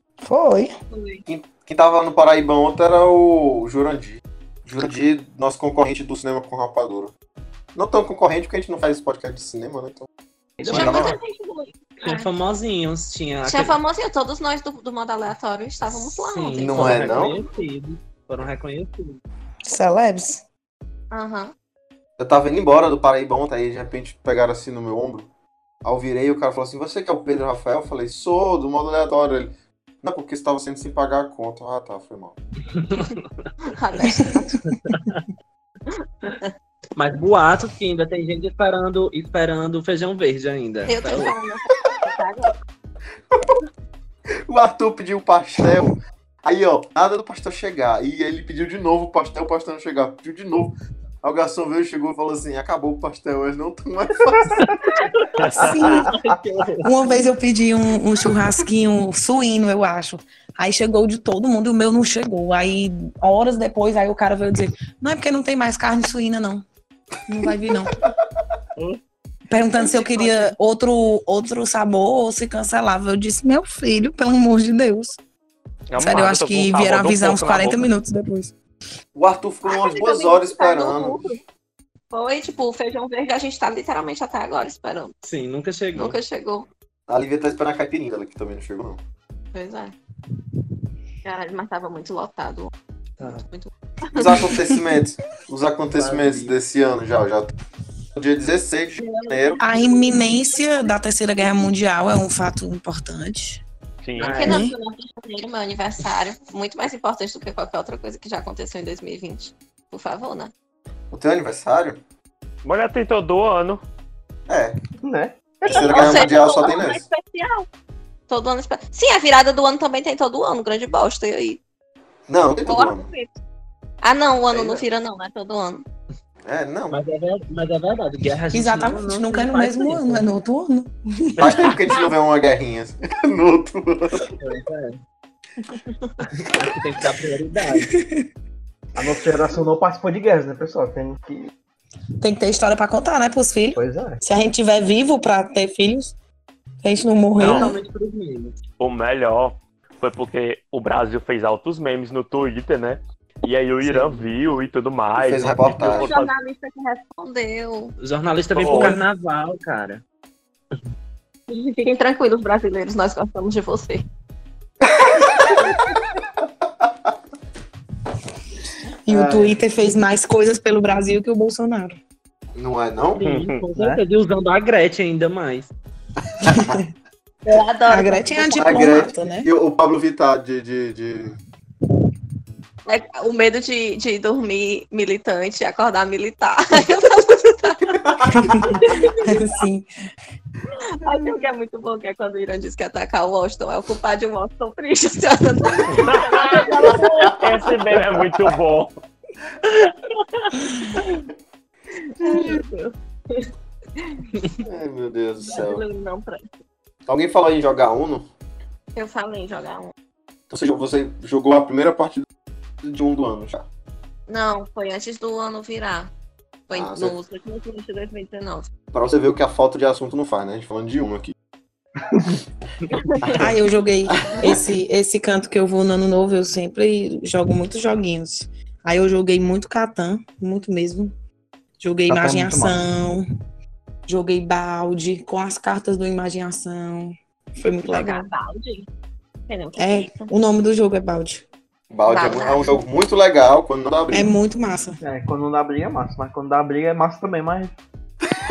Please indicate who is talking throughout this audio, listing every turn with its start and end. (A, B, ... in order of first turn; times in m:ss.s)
0:00.2-0:00.7 A
0:00.9-0:01.2 B
0:01.3-0:07.1 C
0:07.7-0:10.1 C
0:10.6-0:11.1 D
0:10.6-0:11.1 E
0:10.7-0:12.3 B
0:10.7-0:11.1 C
0:12.0-0:13.8 E
0:13.4-0:17.2 B
0:16.2-0:19.2 E
0:16.6-0:17.4 C
0:19.6-0:20.4 A
0:21.1-0:21.5 B
0:22.2-0:25.3 C
0:25.8-0:32.4 C
0:32.9-0:33.2 E
0:33.6-0:34.6 B
0:34.7-0:35.2 E
0:37.0-0:41.3 E
0:40.9-0:42.5 B
0:44.5-0:54.7 C
0:54.8-0:56.9 B
0:55.4-0:56.0 F
0:55.6-0:56.1 A
0:55.7-0:56.3 D
0:56.8-1:06.6 A
1:07.3-1:08.0 A
1:09.5-1:15.2 A
1:09.9-1:10.5 B
1:15.9-1:17.8 F
1:16.0-1:18.5 A
1:19.1-1:21.4 C
1:19.6-1:21.4 B
1:22.1-1:25.1 B
1:25.2-1:26.2 E
1:26.0-1:26.7 B
1:27.1-1:29.0 C
1:29.5-1:29.9 B
1:31.2-1:32.7 B
1:33.2-1:33.4 E
1:33.2-1:34.5 B
1:34.1-1:37.5 C
1:35.9-1:36.5 E
1:38.1-1:39.6 C
1:39.0-1:40.5 B
1:39.6-1:43.6 A
1:44.0-1:44.5 F
1:44.2-1:44.6 E
1:44.2-1:50.5 B
1:44.4-1:44.7 A
1:51.1-1:52.0 C
1:52.6-1:53.8 F
1:54.5-1:54.8 C
1:55.0-1:56.2 D
1:55.6-1:57.0 C
1:55.7-1:57.7 B
1:58.3-2:01.6 B
2:02.3-2:03.1 C
2:02.6-2:03.4 B
2:04.0-2:05.8 B
2:04.5-2:04.8 C
2:06.4-2:07.0 C
2:06.9-2:10.2 E
2:08.5-2:11.7 A
2:11.4-2:14.3 C
2:14.2-2:15.0 E
2:15.7-2:16.1 B
2:16.3-2:17.9 E
2:17.7-2:18.3 A
2:18.9-2:21.5 D
2:22.2-2:26.1 A
2:23.8-2:24.2 D
2:26.8-2:27.7 A
2:27.4-2:28.6 E
2:27.4-2:27.7 F
2:28.8-2:36.3 F
2:35.1-2:36.1 C
2:35.9-2:37.9 B
2:38.0-2:40.0 E
2:38.5-2:39.0 F
2:41.5-2:44.0 B
2:49.0-2:52.0 A
2:49.1-2:49.6 C
2:52.6-2:53.2 C
2:53.2-2:55.7 E
2:53.2-2:53.7 F
2:53.7-2:54.0 D
2:56.2-2:56.8 C
2:56.4-2:56.8 A
2:57.4-2:58.8 B
2:57.9-2:59.5 A
2:58.6-3:01.4 C
3:02.9-3:08.0 B
3:08.1-3:08.6 C
3:08.3-3:09.9 A
3:08.6-3:09.6 B
3:10.7-3:17.6 B
3:16.0-3:18.9 F
3:16.9-3:18.2 C
3:22.0-3:23.5 B
3:24.0-3:24.2 B
3:24.6-3:25.8 C
3:25.4-3:26.4 B
3:27.1-3:28.3 C
3:28.9-3:29.9 B
3:30.5-3:32.2 C
3:32.8-3:33.7 C
3:34.3-3:36.1 B
3:36.7-3:38.7 B
3:36.7-3:37.2 C
3:38.9-3:41.3 C
3:43.4-3:51.1 A
3:44.2-3:44.6 C
3:51.8-3:53.2 A
3:52.1-3:52.8 D
3:54.1-3:58.3 A
3:57.9-3:58.9 B
3:59.5-4:00.3 B
3:59.8-4:01.4 A
4:01.9-4:04.3 C
4:02.1-4:02.8 B
4:04.1-4:05.0 A
4:05.0-4:07.7 D